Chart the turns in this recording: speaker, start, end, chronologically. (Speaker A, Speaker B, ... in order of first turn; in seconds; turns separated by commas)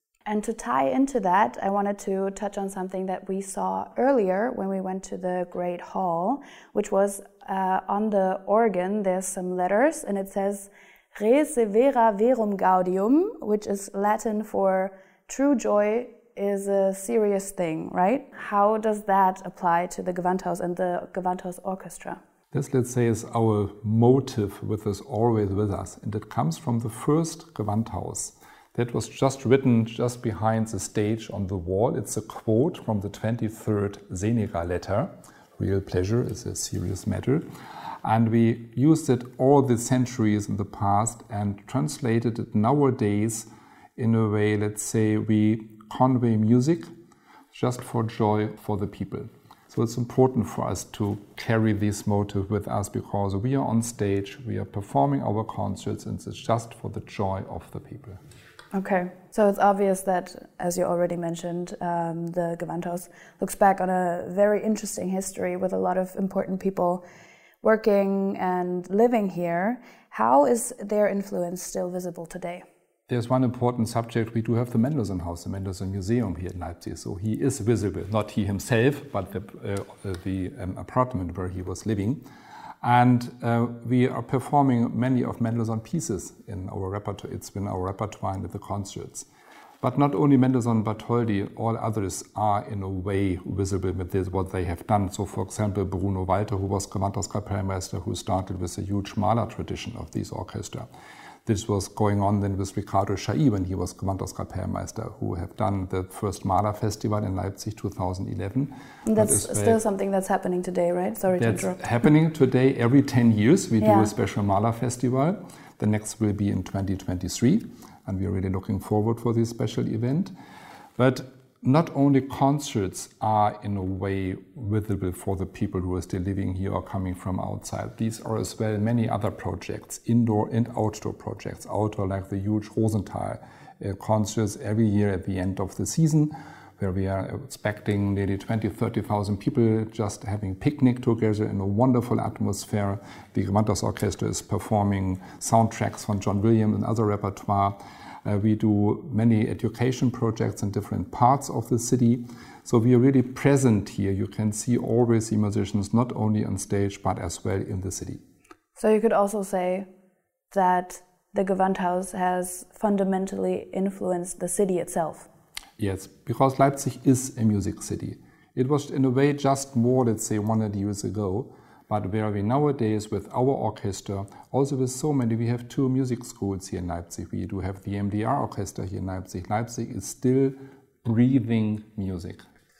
Speaker A: 0.3-22.2, Speaker B: 22.5-37.5, Speaker B: 38.0-46.9, Speaker B: 47.5-58.2, Speaker A: 58.7-67.0, Speaker A: 67.6-72.7, Speaker B: 73.1-82.2, Speaker B: 82.8-89.3, Speaker B: 89.8-100.9, Speaker B: 101.5-109.8, Speaker A: 109.0-111.8, Speaker B: 111.4-120.3, Speaker A: 113.8-114.1, Speaker B: 121.0-158.2, Speaker A: 158.8-159.9, Speaker A: 160.5-165.3, Speaker B: 165.8-182.4